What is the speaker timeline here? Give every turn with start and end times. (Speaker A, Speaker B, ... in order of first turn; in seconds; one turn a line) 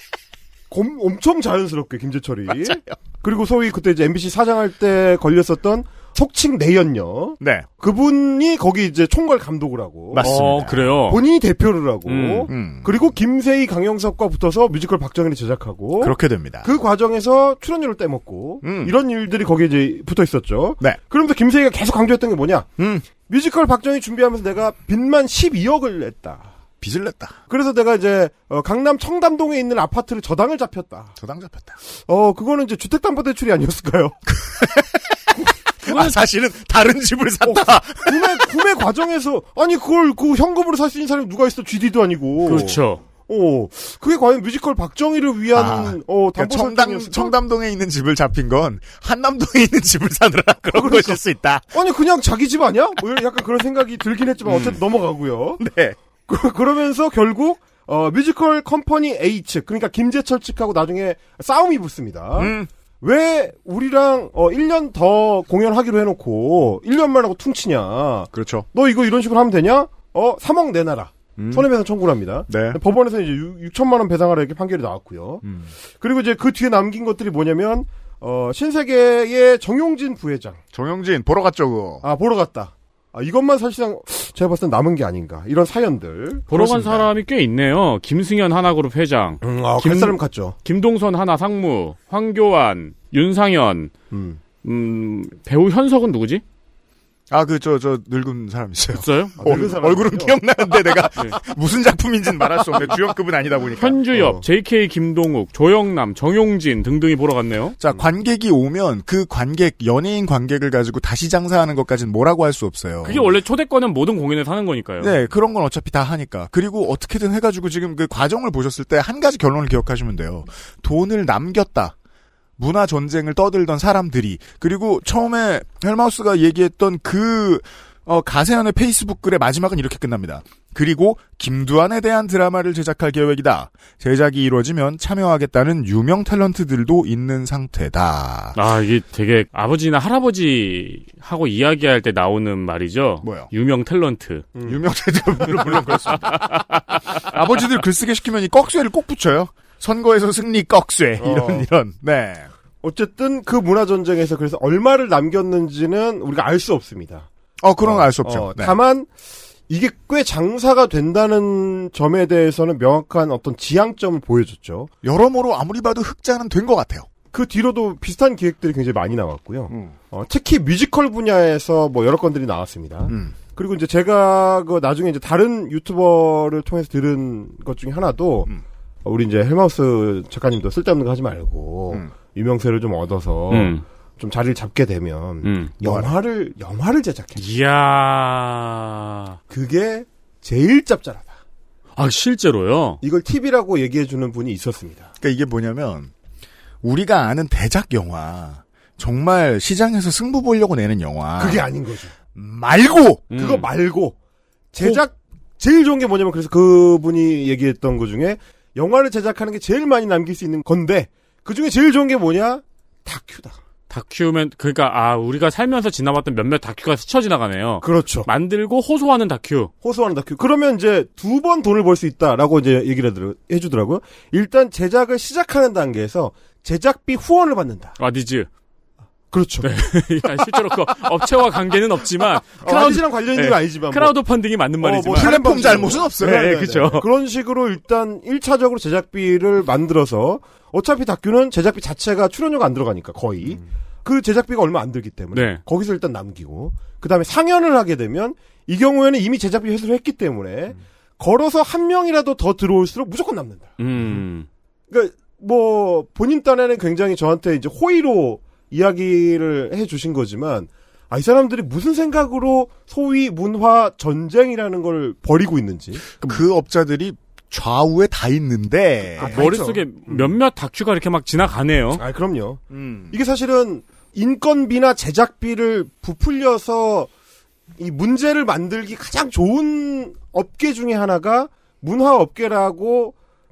Speaker A: 0.7-10.3
Speaker B: 2.5-2.9
Speaker B: 7.4-7.7
Speaker B: 10.1-11.0
Speaker C: 10.2-11.2
Speaker A: 11.1-22.7
Speaker C: 12.1-12.5
Speaker B: 12.5-12.9
Speaker B: 16.0-16.7
Speaker B: 18.6-18.9
Speaker B: 22.8-23.1
Speaker A: 23.3-26.5
Speaker B: 26.8-27.4
Speaker A: 27.5-31.1
Speaker B: 31.2-31.8
Speaker A: 32.1-34.2
Speaker B: 34.3-35.2
Speaker B: 35.8-38.4
Speaker A: 37.4-47.4
Speaker C: 42.5-43.0
Speaker B: 45.5-51.6
Speaker A: 50.7-55.6
Speaker B: 55.6-56.0
Speaker A: 56.3-75.4
Speaker B: 62.4-62.7
Speaker B: 68.3-68.7
Speaker B: 71.4-71.7
Speaker B: 72.5-72.8
Speaker B: 75.4-75.7
Speaker A: 76.0-80.6
Speaker B: 80.7-82.0
Speaker A: 82.0-86.5
Speaker C: 86.5-93.9
Speaker B: 86.5-87.1
Speaker A: 89.4-90.6
Speaker A: 94.1-94.4
Speaker C: 94.6-96.4
Speaker B: 97.3-104.0
Speaker C: 98.9-99.7
Speaker A: 99.4-100.4
Speaker C: 103.8-107.8
Speaker A: 104.1-104.4
Speaker B: 107.8-113.2
Speaker C: 113.0-115.2
Speaker B: 115.0-122.0
Speaker B: 122.6-138.6
Speaker C: 138.6-144.5
Speaker B: 143.2-143.5
Speaker A: 144.6-144.8
Speaker B: 144.7-152.5
Speaker A: 145.4-145.7
Speaker A: 151.2-151.7
Speaker A: 152.8-157.3
Speaker B: 157.6-158.8
Speaker A: 157.8-159.1
Speaker A: 159.7-164.9
Speaker B: 165.0-167.1
Speaker A: 167.3-178.5
Speaker B: 169.7-169.9
Speaker B: 173.1-173.3
Speaker A: 179.1-187.4
Speaker C: 183.5-183.8
Speaker C: 185.4-185.7
Speaker B: 185.8-186.1
Speaker C: 187.4-189.4
Speaker A: 189.5-191.4
Speaker C: 192.0-193.0
Speaker A: 193.0-195.1
Speaker B: 195.2-196.1
Speaker B: 196.8-201.7
Speaker A: 201.4-202.1
Speaker B: 202.3-203.5
Speaker A: 203.3-204.2
Speaker C: 203.4-203.6
Speaker A: 204.7-213.6
Speaker C: 213.9-219.7
Speaker A: 217.8-218.3
Speaker A: 219.8-228.0
Speaker C: 228.0-228.5
Speaker A: 229.3-229.7
Speaker C: 229.6-237.1
Speaker A: 232.6-234.2
Speaker B: 232.7-232.9
Speaker A: 234.8-254.2
Speaker B: 235.1-236.5
Speaker C: 245.3-245.6
Speaker C: 253.8-254.5
Speaker A: 254.9-266.0
Speaker B: 266.2-269.4
Speaker A: 269.2-270.3
Speaker C: 269.2-272.0
Speaker A: 272.0-277.1
Speaker B: 272.7-273.2
Speaker A: 277.8-283.1